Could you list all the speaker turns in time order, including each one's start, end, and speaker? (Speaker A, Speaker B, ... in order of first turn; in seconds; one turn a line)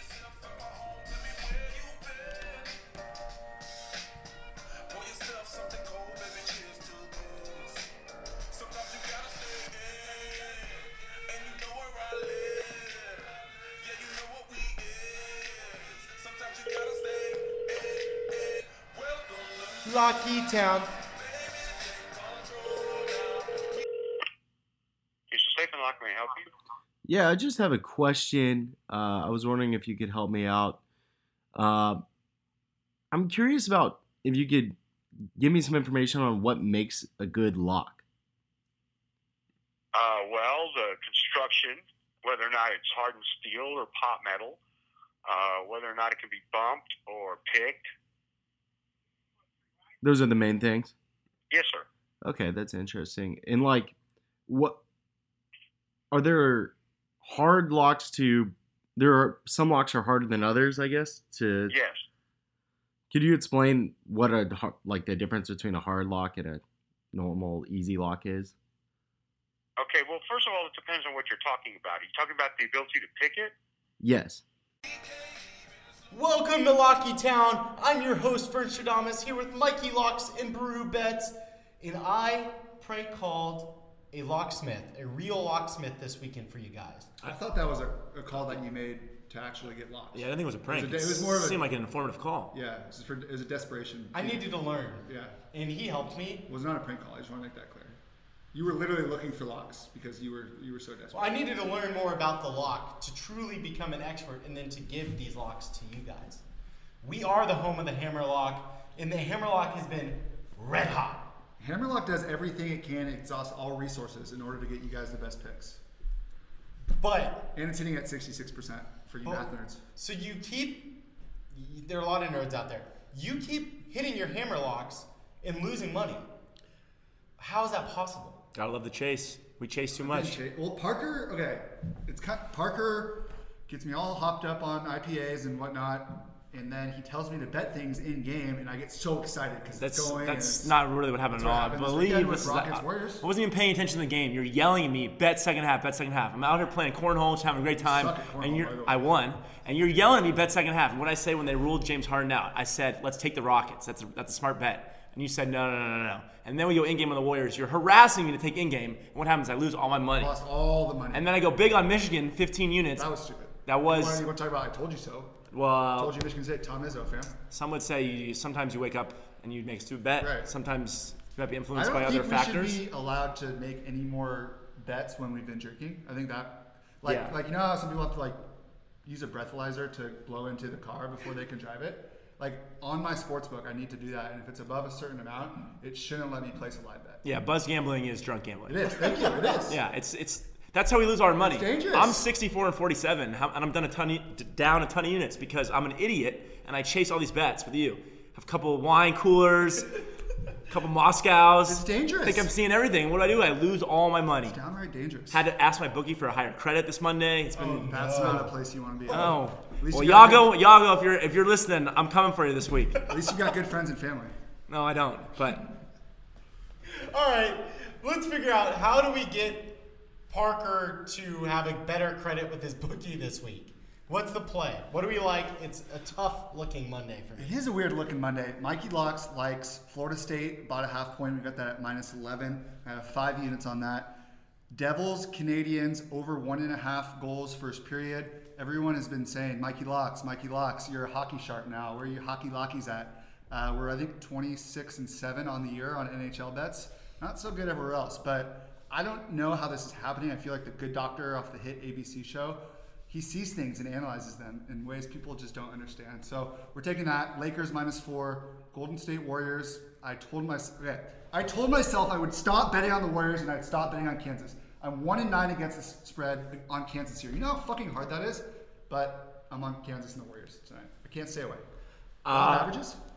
Speaker A: 0.3-2.7
Speaker A: 4.9-7.9
Speaker A: 8.5-13.3
Speaker A: 13.8-19.7
Speaker B: 19.8-20.9
Speaker A: 21.3-23.0
Speaker C: 25.3-26.5
Speaker D: 27.0-30.8
Speaker D: 31.5-32.0
Speaker D: 33.1-34.8
Speaker D: 35.4-38.0
Speaker C: 39.9-44.6
Speaker C: 45.2-47.9
Speaker D: 50.0-50.9
Speaker C: 51.5-51.9
Speaker D: 52.2-53.9
Speaker D: 54.5-54.8
Speaker D: 56.1-61.7
Speaker C: 61.7-62.0
Speaker D: 63.1-68.5
Speaker C: 69.8-73.5
Speaker D: 74.0-74.4
Speaker B: 76.1-87.1
Speaker E: 87.2-91.7
Speaker A: 90.1-92.5
Speaker E: 92.5-94.5
Speaker B: 94.1-96.4
Speaker E: 95.0-95.3
Speaker E: 96.5-98.0
Speaker E: 98.5-101.3
Speaker B: 101.1-106.4
Speaker B: 107.0-111.3
Speaker E: 111.6-115.8
Speaker B: 116.9-117.5
Speaker E: 117.5-119.8
Speaker B: 119.2-120.9
Speaker B: 121.5-126.2
Speaker B: 127.4-128.4
Speaker A: 128.5-130.4
Speaker E: 130.0-140.8
Speaker A: 139.8-160.3
Speaker E: 141.3-143.2
Speaker E: 147.8-149.0
Speaker E: 160.1-161.3
Speaker A: 161.1-163.1
Speaker E: 162.9-165.3
Speaker A: 163.7-164.2
Speaker A: 165.5-166.2
Speaker E: 166.0-167.3
Speaker A: 167.5-172.8
Speaker E: 170.2-170.5
Speaker E: 171.7-178.4
Speaker A: 177.0-177.3
Speaker E: 179.0-187.2
Speaker A: 187.2-199.9
Speaker E: 188.7-189.8
Speaker E: 191.4-192.2
Speaker A: 200.7-204.6
Speaker E: 201.7-202.5
Speaker E: 204.4-205.4
Speaker A: 205.3-208.4
Speaker B: 207.5-208.5
Speaker E: 207.6-210.5
Speaker A: 209.1-212.9
Speaker E: 213.1-214.3
Speaker A: 214.7-215.6
Speaker B: 216.9-227.6
Speaker E: 227.4-234.2
Speaker E: 234.7-271.6
Speaker A: 272.2-272.7
Speaker E: 272.3-273.0